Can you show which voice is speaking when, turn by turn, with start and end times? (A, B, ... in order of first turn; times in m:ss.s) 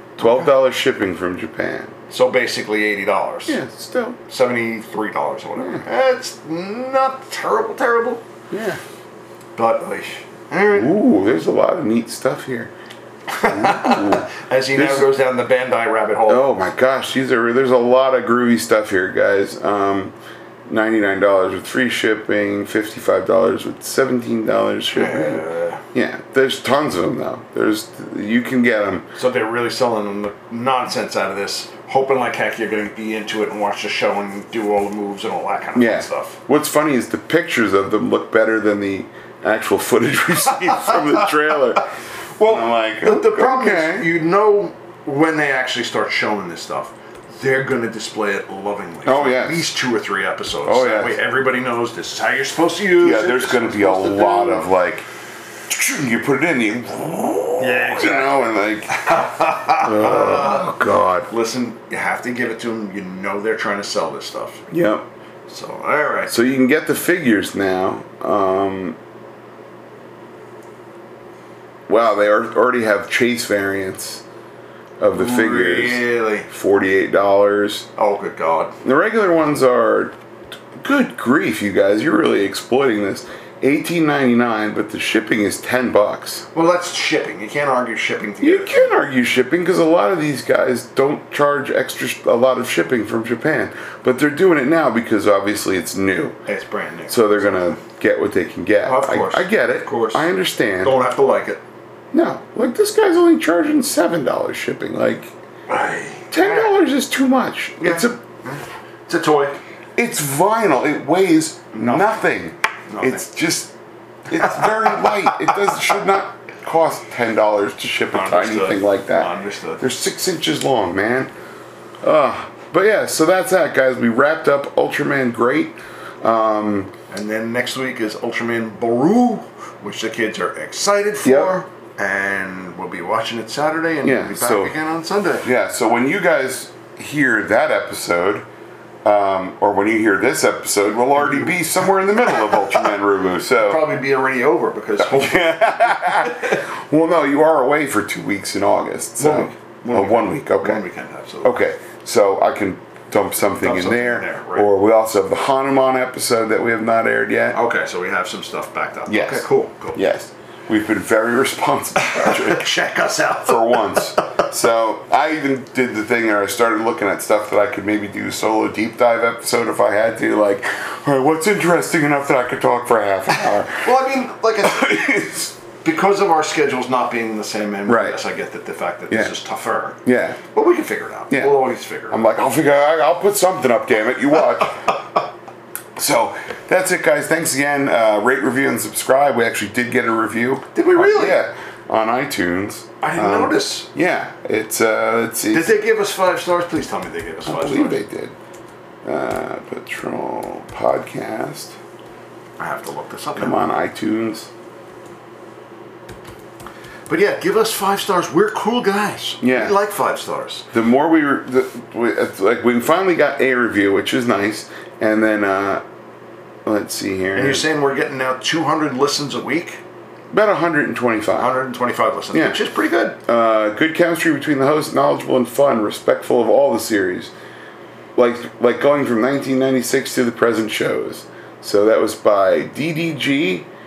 0:00.2-0:01.9 A
0:00.2-0:00.5 B
0:02.1-0:03.6 B
0:03.5-0:04.2 A
0:04.3-0:08.2 B
0:05.6-0:05.8 A
0:08.5-0:08.8 A
0:09.6-0:10.9 B
0:10.7-0:12.7 A
0:13.3-0:16.6 B
0:13.5-0:15.1 A
0:16.3-0:20.1 A
0:20.7-0:29.1 A
0:24.9-0:25.8 B
0:29.2-0:36.4 B
0:35.8-0:41.8 A
0:40.7-0:41.8 B
0:42.4-0:54.7 B
0:42.4-0:44.1 A
0:49.0-0:49.7 A
0:50.6-0:51.2 A
0:53.0-0:55.1 A
0:55.7-1:01.3 A
0:57.6-1:04.6 B
1:04.7-1:05.1 A
1:05.5-1:06.4 B
1:06.3-1:09.0 A
1:11.9-1:14.2 A
1:15.0-1:17.9 A
1:15.1-1:16.5 B
1:18.0-1:18.8 B
1:18.8-1:20.1 A
1:20.8-1:26.4 A
1:26.5-1:28.9 B
1:28.4-1:36.4 A
1:36.5-1:37.8 B
1:37.1-1:41.0 A
1:38.8-1:40.3 B
1:40.8-1:41.6 B
1:42.1-1:45.3 A
1:45.7-1:46.7 B
1:46.3-1:48.2 A
1:47.8-1:49.6 B
1:50.0-1:53.7 A
1:51.7-1:52.2 B
1:52.9-1:53.2 B
1:54.3-2:01.3 A
1:54.4-1:55.8 B
1:58.1-1:59.8 B
2:02.0-2:06.9 A
2:07.1-2:15.4 B
2:11.2-2:11.6 A
2:14.0-2:14.8 A
2:15.4-2:18.4 A
2:19.0-2:23.8 A
2:21.2-2:23.0 B
2:23.6-2:26.6 B
2:25.0-2:30.8 A
2:29.2-2:31.6 B
2:31.4-2:37.6 A
2:33.6-2:34.7 B
2:37.5-2:40.0 B
2:39.1-2:42.7 A
2:42.0-2:44.4 B
2:43.4-2:53.9 A
2:53.7-2:55.2 B
2:54.6-2:55.6 A
2:55.8-3:00.0 B
2:57.9-2:58.2 A
3:00.0-3:00.4 A
3:00.5-3:02.2 B
3:01.3-3:05.0 A
3:06.0-3:15.8 A
3:10.8-3:11.4 B
3:13.0-3:13.9 B
3:15.5-3:18.0 B
3:17.5-3:18.3 A
3:19.0-3:21.8 A
3:22.6-3:23.6 B
3:23.4-3:24.5 A
3:27.1-3:30.6 B
3:29.4-3:29.7 A
3:30.7-3:35.8 A
3:36.6-3:37.7 A
3:37.4-3:39.8 B
3:40.3-3:41.6 A
3:41.4-3:43.2 B
3:42.3-3:42.6 A
3:43.2-3:47.3 A
3:48.2-3:53.7 A